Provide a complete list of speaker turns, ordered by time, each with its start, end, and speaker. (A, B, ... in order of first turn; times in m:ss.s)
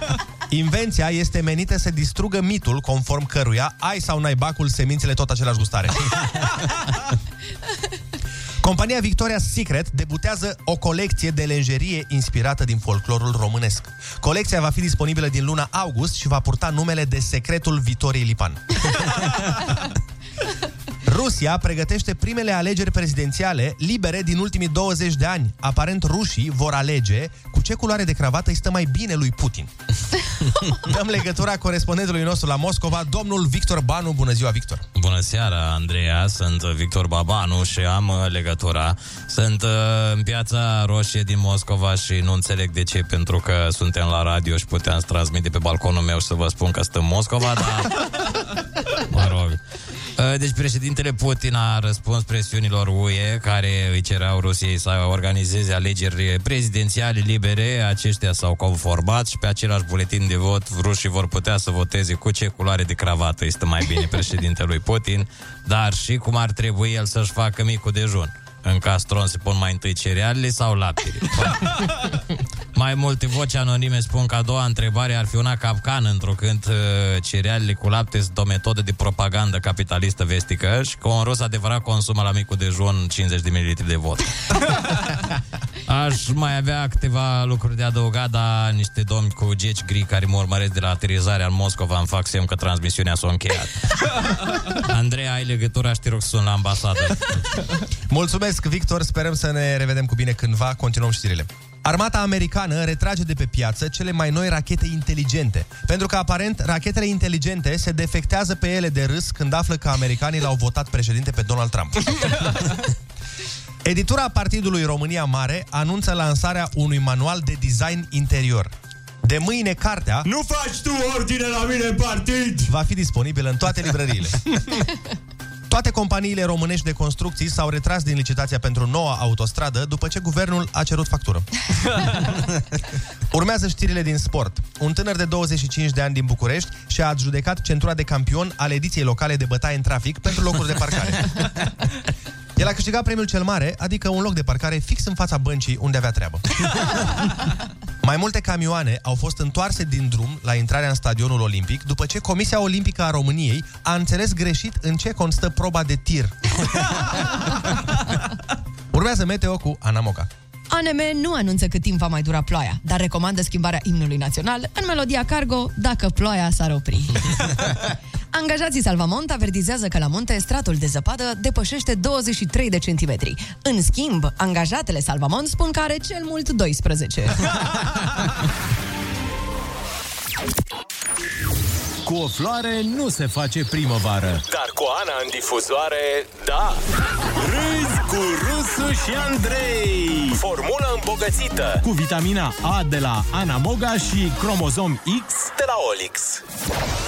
0:00.5-0:06.1 A
0:08.6-0:19.3 A
0:21.0-0:29.7 A
0:30.7-0:34.8 A
0:34.9-0:48.3 B
0:49.0-0:49.6 B
0:50.2-1:12.0 B
1:12.7-1:24.8 B
1:25.9-1:37.5 B
1:38.1-1:52.5 A
1:53.8-1:58.7 A
1:59.2-2:00.3 A
2:00.2-2:02.7 B
2:02.7-2:04.4 A
2:05.7-2:11.5 A
2:13.3-2:21.5 A
2:22.6-2:26.6 A
2:28.0-2:37.6 A
2:38.9-2:40.3 A
2:40.7-2:47.5 C
2:48.3-2:57.5 C
3:02.0-3:04.4 D
3:04.5-3:06.8 E
3:07.4-3:10.4 D
3:07.4-3:09.2 E
3:10.3-3:11.8 E
3:11.8-3:15.5 D
3:15.4-3:16.4 E